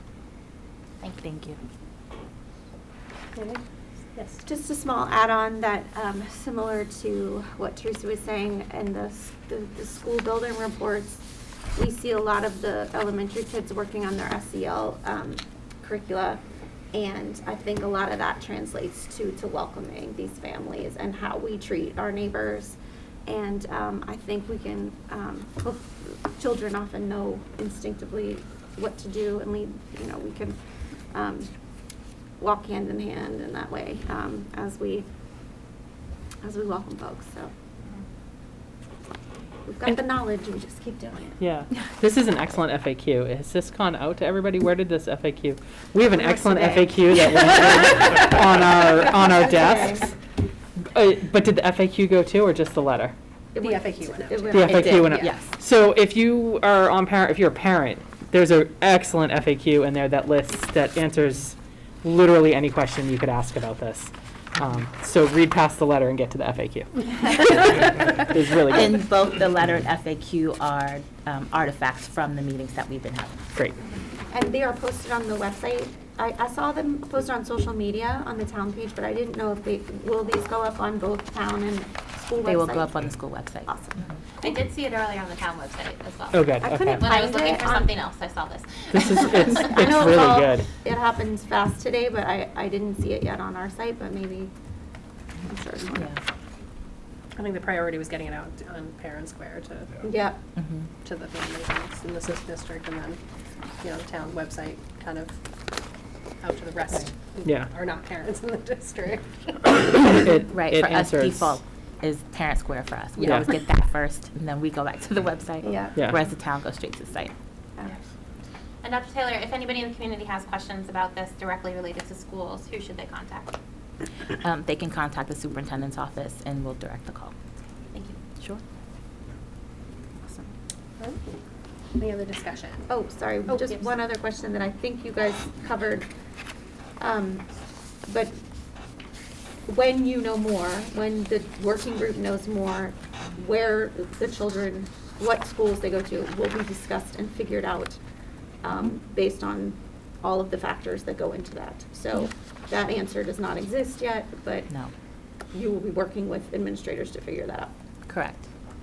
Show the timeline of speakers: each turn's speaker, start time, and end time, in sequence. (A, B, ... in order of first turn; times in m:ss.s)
0:01.0-0:01.6 A
0:03.4-0:03.6 B
0:04.2-0:04.4 B
0:04.4-0:16.4 C
0:16.9-0:30.6 C
0:31.1-0:31.5 C
0:32.4-0:35.1 C
0:36.4-0:37.5 C
0:39.7-0:41.4 C
0:41.4-0:50.1 D
0:46.1-0:47.5 C
0:48.6-0:50.1 C
0:50.8-0:53.2 D
0:53.6-0:55.3 C
0:53.6-0:55.2 B
0:54.5-1:09.0 D
0:54.7-0:55.6 A
1:08.7-1:13.4 A
1:14.3-1:23.1 C
1:22.4-1:24.1 A
1:23.7-1:24.6 C
1:24.4-1:29.7 E
1:26.3-1:27.0 D
1:26.6-1:27.9 C
1:28.9-1:30.7 D
1:29.5-1:34.5 C
1:35.5-1:36.2 C
1:37.4-1:40.0 B
1:40.0-1:40.4 C
1:40.6-1:40.9 A
1:41.0-1:43.2 B
1:43.8-1:45.4 B
1:46.4-1:50.2 B
1:47.4-1:47.7 D
1:49.8-1:51.6 D
1:50.5-1:57.3 A
1:53.2-1:53.5 B
1:55.6-1:56.0 C
1:58.8-2:03.6 E
2:04.4-2:07.3 A
2:07.9-2:08.2 E
2:10.2-2:10.5 C
2:11.0-2:11.4 B
2:12.0-2:12.9 B
2:12.9-2:16.1 C
2:13.5-2:13.9 B
2:17.0-2:17.5 C
2:18.1-2:18.4 C
2:19.7-2:28.0 C
2:28.6-2:34.7 C
2:35.5-2:37.7 C
2:38.1-2:38.4 A